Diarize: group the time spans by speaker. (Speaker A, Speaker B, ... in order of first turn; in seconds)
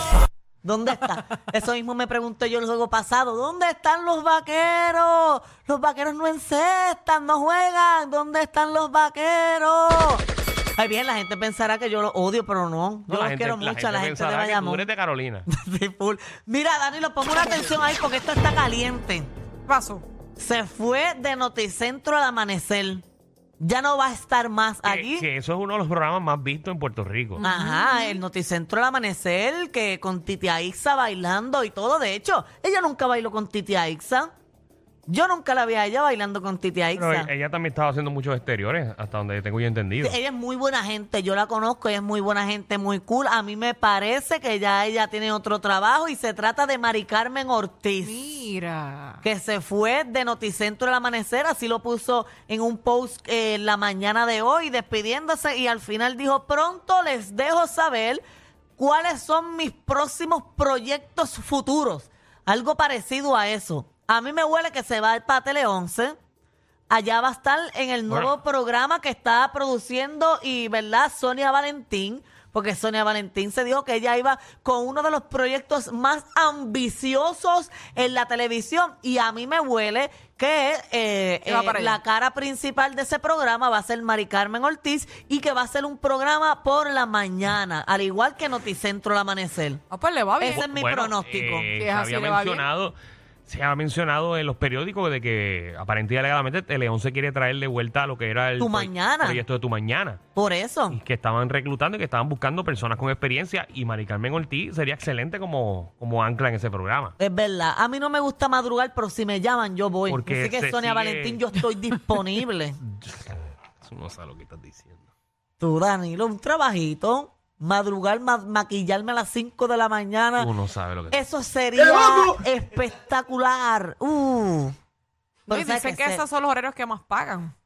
Speaker A: 0.6-10.2, 10.8-14.9, 15.5-19.3, 20.4-23.1, 23.6-25.3, 27.4-34.3, 35.1-37.3, 40.0-48.2, 49.2-58.2, 58.8-66.2, 66.9-89.8, 90.4-91.7, 98.6-99.4, 100.3-101.0, 107.2-112.8, 115.6-120.5, 121.1-124.7, 125.5-126.2
Speaker B: 13.1-15.5, 24.8-27.4, 37.0-40.2, 90.5-93.0, 93.5-100.2, 100.9-107.2, 110.1-111.5, 112.8-115.1, 120.4-121.2
Speaker C: 19.7-20.1, 27.4-28.2, 48.0-49.2, 81.5-82.0, 89.9-90.7, 91.8-92.7, 125.5-127.5